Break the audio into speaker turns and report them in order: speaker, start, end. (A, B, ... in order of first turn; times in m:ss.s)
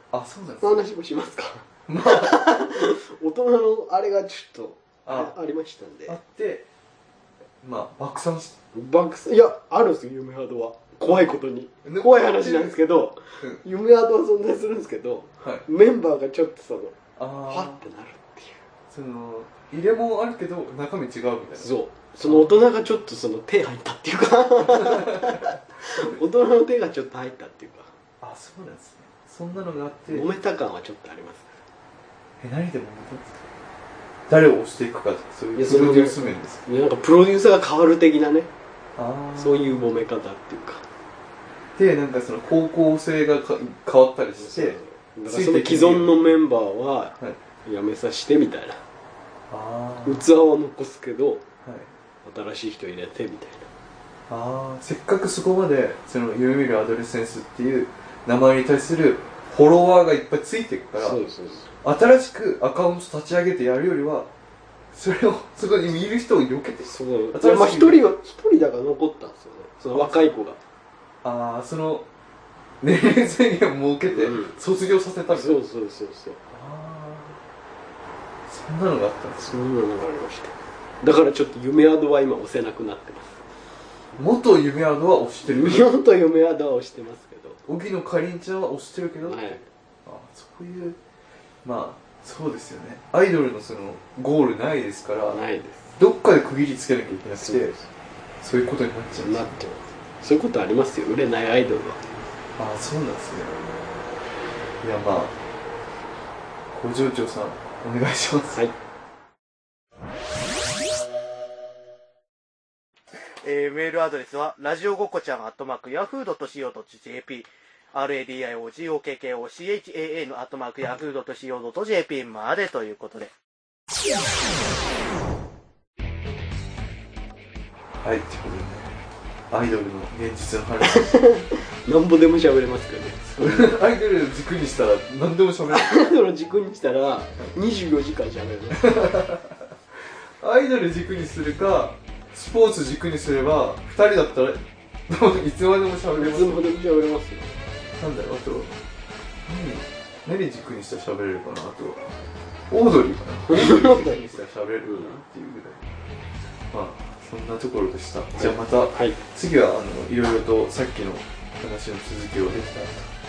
0:00.1-0:00.8 A
0:00.6-0:06.2 B
0:01.9-0:02.5 A
0:05.0-0:05.3 A
0:06.1-0:06.6 A
0:07.6-0:08.5 A
0:08.7-0:18.6 B
0:11.8-0:12.8 A
0:17.2-0:17.8 A
0:18.9-0:21.7 A
0:21.6-0:27.9 B
0:22.2-0:22.5 A
0:28.2-0:30.3 A
0:30.1-0:31.5 B
0:32.4-0:33.4 A
0:34.3-0:36.6 A
0:35.5-0:38.5 B
0:39.0-0:39.9 A
0:39.4-0:40.8 B
0:41.8-0:46.1 A
0:44.4-0:48.8 B
0:49.5-0:50.2 A
0:50.0-0:51.4 B
0:51.6-0:51.9 A
0:52.2-0:53.7 B
0:54.3-1:01.2 A
1:01.0-1:01.7 B
1:01.8-1:04.3 A
1:04.9-1:08.0 A
1:06.8-1:10.6 B
1:11.2-1:12.0 A
1:12.8-1:15.6 A
1:14.1-1:14.5 B
1:15.3-1:16.4 B
1:16.5-1:17.4 A
1:18.5-1:19.5 A
1:19.4-1:23.4 B
1:24.2-1:25.9 A
1:25.4-1:27.6 B
1:27.6-1:31.0 A
1:29.2-1:29.6 B
1:31.6-1:35.4 A
1:35.3-1:35.9 B
1:36.0-1:37.7 A
1:37.4-1:37.8 B
1:38.4-1:39.5 A
1:39.2-1:42.0 B
1:42.6-1:43.7 A
1:44.8-1:45.3 A
1:46.7-1:48.6 A
1:53.2-2:03.3 C
2:08.0-2:11.1 A
2:10.9-2:13.7 B
2:13.4-2:16.1 A
2:15.7-2:19.1 B
2:18.7-2:26.6 A
2:26.1-2:27.5 B
2:28.0-2:28.8 A
2:29.4-2:32.1 A
2:32.7-2:35.9 A
2:33.5-2:34.1 B
2:34.9-2:35.1 B
2:36.7-2:43.1 A
2:38.3-2:39.2 B